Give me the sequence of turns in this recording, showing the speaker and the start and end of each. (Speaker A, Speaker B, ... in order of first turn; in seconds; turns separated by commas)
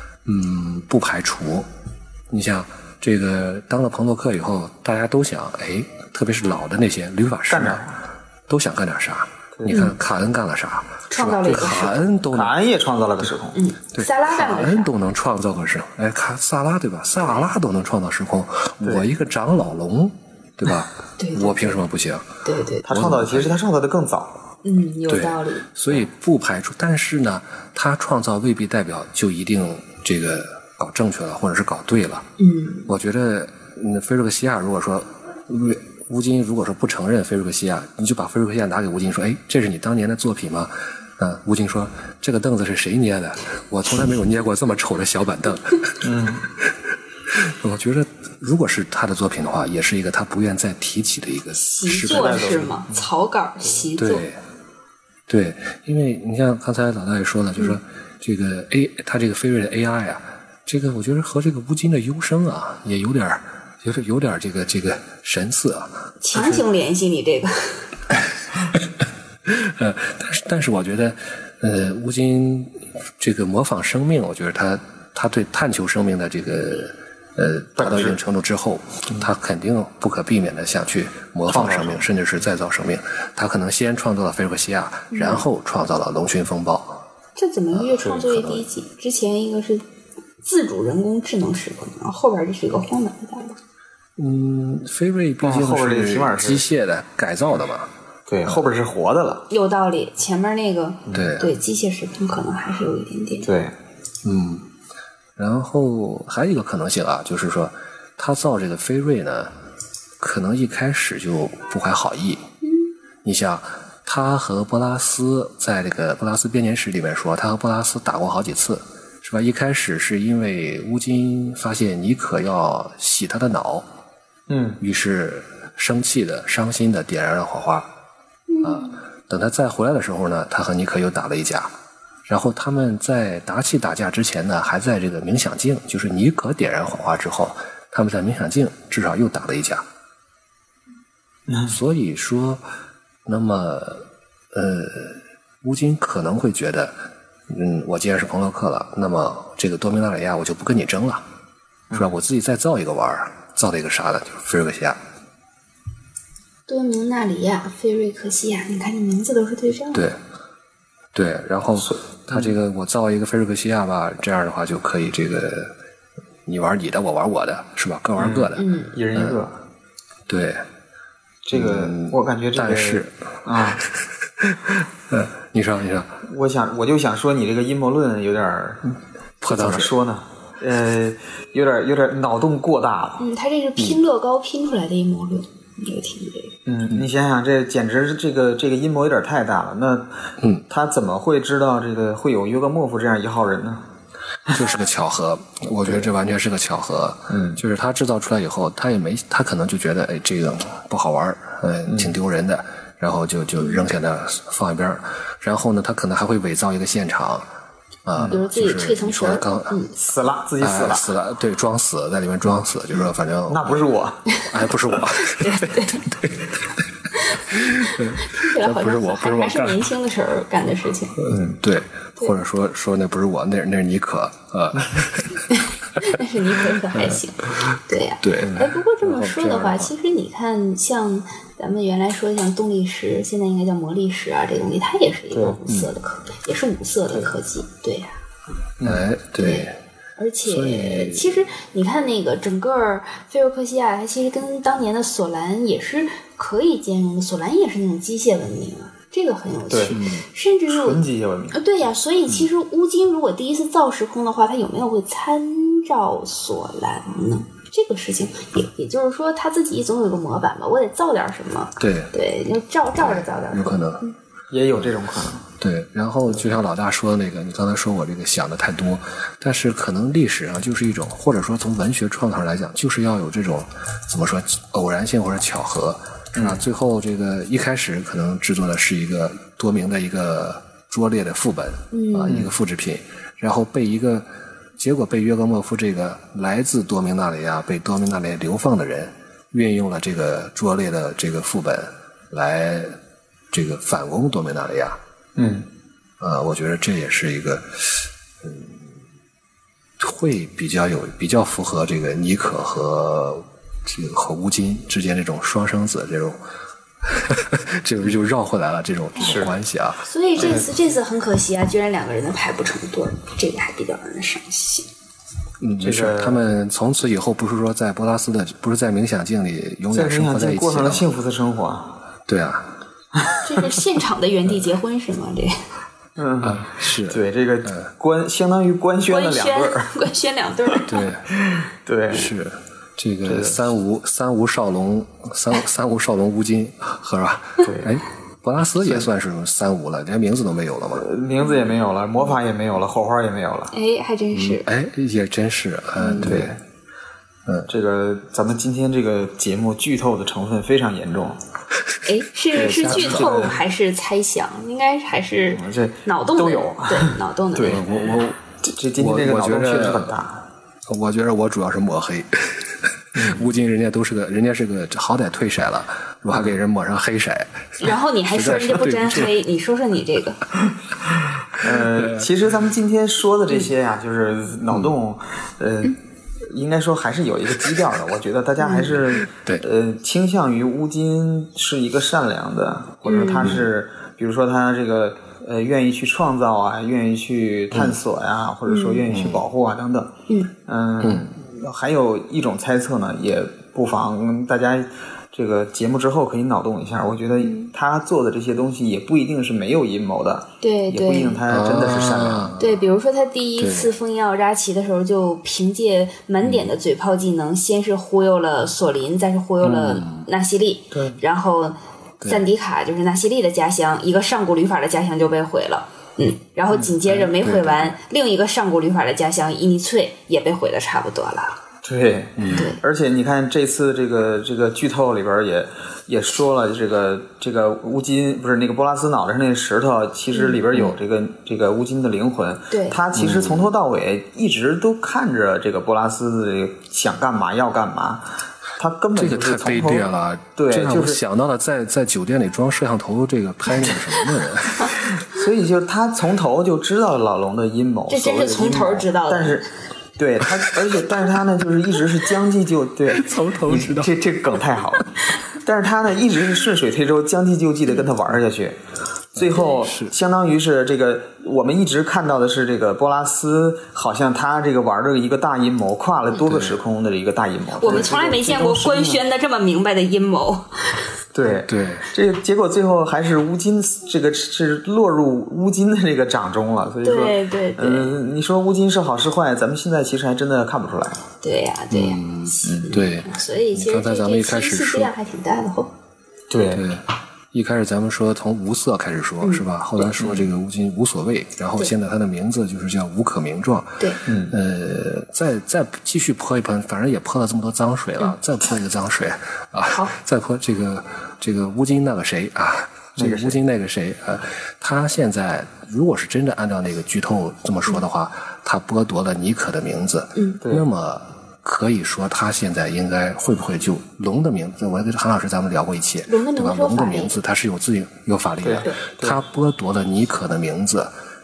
Speaker A: 0.2-1.7, Speaker A: 2.3-7.8, Speaker B: 7.5-8.0, Speaker A: 8.5-12.5, Speaker B: 9.6-9.8, Speaker C: 9.7-9.9, Speaker C: 11.1-12.0, Speaker B: 11.5-13.6, Speaker C: 13.5-14.9, Speaker A: 13.9-22.2, Speaker C: 21.2-21.8, Speaker C: 22.4-22.9, Speaker B: 22.8-24.3, Speaker A: 22.9-23.6, Speaker C: 24.6-25.7, Speaker A: 25.1-32.2, Speaker C: 32.4-32.9, Speaker A: 32.9-46.7, Speaker B: 46.0-46.4, Speaker A: 47.3-52.6, Speaker C: 51.5-54.2, Speaker B: 52.0-53.1, Speaker A: 54.0-54.4, Speaker A: 55.3-66.6, Speaker C: 66.2-67.9, Speaker A: 68.8-87.0, Speaker B: 77.8-78.2, Speaker B: 81.5-82.0, Speaker C: 85.1-85.4, Speaker C: 87.4-89.8, Speaker A: 87.7-88.6, Speaker C: 90.4-93.6, Speaker A: 94.2-97.9, Speaker B: 95.4-96.6, Speaker B: 98.3-99.5, Speaker C: 99.5-103.5, Speaker B: 101.1-101.4, Speaker A: 101.1-101.5, Speaker B: 103.4-103.7, Speaker A: 104.2-104.7, Speaker A: 105.3-109.5, Speaker A: 110.2-112.4, Speaker C: 112.6-112.9, Speaker A: 113.2-123.8, Speaker B: 124.5-124.8, Speaker A: 124.8-127.9, Speaker C: 128.5-129.0, Speaker A: 128.6-131.7, Speaker A: 132.2-139.8, Speaker B: 141.5-141.8, Speaker A: 141.7-142.6, Speaker A: 143.2-146.9, Speaker A: 147.5-151.2, Speaker A: 151.9-155.0, Speaker C: 156.7-160.1, Speaker A: 159.9-160.2, Speaker A: 161.1-165.7, Speaker B: 161.8-162.6, Speaker A: 166.4-169.4, Speaker B: 168.2-169.5, Speaker C: 168.5-169.0, Speaker A: 170.3-170.6, Speaker B: 171.4-173.8, Speaker A: 171.5-173.1, Speaker A: 173.8-176.2, Speaker B: 176.3-178.8, Speaker A: 179.4-179.9, Speaker B: 179.5-183.2, Speaker C: 183.2-186.5, Speaker B: 186.7-190.1, Speaker B: 190.7-193.8, Speaker A: 194.5-207.5, Speaker B: 197.3-197.6, Speaker B: 201.9-202.2, Speaker A: 208.0-209.8, Speaker C: 208.3-209.9, Speaker B: 209.9-211.1, Speaker A: 210.6-213.8, Speaker B: 213.5-214.2, Speaker A: 214.5-216.8, Speaker C: 215.1-216.0, Speaker C: 217.2-221.2, Speaker A: 217.5-219.8, Speaker A: 221.2-225.5, Speaker B: 221.3-221.6, Speaker C: 225.5-238.2, Speaker A: 226.9-227.2, Speaker A: 228.2-229.9, Speaker B: 228.4-228.7, Speaker B: 235.3-235.6, Speaker B: 238.8-239.1, Speaker A: 238.8-239.8, Speaker C: 239.4-264.1, Speaker A: 240.4-241.4, Speaker B: 249.7-250.0, Speaker A: 249.9-250.2, Speaker B: 250.7-251.6, Speaker A: 261.8-262.1, Speaker A: 263.0-264.0, Speaker B: 264.5-265.4, Speaker A: 265.6-284.3, Speaker B: 276.4-276.6, Speaker C: 281.9-282.4, Speaker B: 282.3-282.5, Speaker A: 284.8-292.9, Speaker A: 293.5-295.0, Speaker B: 295.4-295.7, Speaker A: 296.2-298.9, Speaker A: 300.0-306.4, Speaker A: 307.0-310.6, Speaker B: 309.2-309.5, Speaker C: 310.0-314.9, Speaker B: 310.4-310.6, Speaker A: 315.6-321.0, Speaker B: 315.8-316.4, Speaker B: 319.9-322.0, Speaker A: 322.3-322.7, Speaker B: 323.1-323.5, Speaker C: 323.4-325.6, Speaker B: 326.2-329.9, Speaker A: 326.4-327.9, Speaker C: 329.1-331.1, Speaker A: 330.9-331.2, Speaker B: 331.3-332.3, Speaker A: 332.1-341.1, Speaker B: 333.2-333.6, Speaker B: 337.6-338.0, Speaker B: 341.0-343.7, Speaker C: 343.7-344.7, Speaker A: 344.3-346.6, Speaker C: 346.0-346.3, Speaker B: 346.2-346.6, Speaker B: 347.7-351.4, Speaker C: 352.1-357.8, Speaker B: 352.5-353.6, Speaker A: 352.6-353.5, Speaker B: 355.6-357.8, Speaker A: 357.6-358.4, Speaker B: 358.6-360.4, Speaker A: 358.9-360.1, Speaker A: 360.9-369.3, Speaker C: 367.8-370.4, Speaker B: 371.5-375.9, Speaker A: 371.6-372.2, Speaker B: 376.5-390.1, Speaker C: 378.6-379.0, Speaker A: 379.3-379.6, Speaker C: 383.0-383.6, Speaker C: 388.7-389.0, Speaker A: 389.1-389.4, Speaker B: 390.6-402.6, Speaker C: 397.4-397.7, Speaker C: 400.6-401.4, Speaker A: 401.5-402.8, Speaker C: 402.6-421.5, Speaker A: 403.6-403.9, Speaker A: 409.6-410.3, Speaker B: 410.9-411.2, Speaker A: 417.1-417.9, Speaker B: 421.8-438.2, Speaker A: 422.4-422.6, Speaker C: 422.5-422.8, Speaker C: 432.7-433.0, Speaker A: 433.1-433.7, Speaker B: 438.8-441.2, Speaker A: 439.1-445.2, Speaker B: 445.2-449.6, Speaker C: 448.1-449.6, Speaker B: 450.2-458.8, Speaker A: 453.1-454.1, Speaker A: 459.3-460.1, Speaker B: 459.4-469.2, Speaker A: 466.3-466.8, Speaker C: 467.8-471.0, Speaker B: 471.3-481.2, Speaker A: 471.6-472.1, Speaker C: 477.0-478.1, Speaker C: 481.4-485.9, Speaker A: 481.9-485.1, Speaker B: 482.6-482.9, Speaker B: 486.5-486.8, Speaker A: 486.7-521.1, Speaker C: 489.4-490.1, Speaker B: 490.2-490.4, Speaker B: 494.3-494.5, Speaker B: 503.2-503.6, Speaker C: 516.3-517.4, Speaker B: 518.6-519.4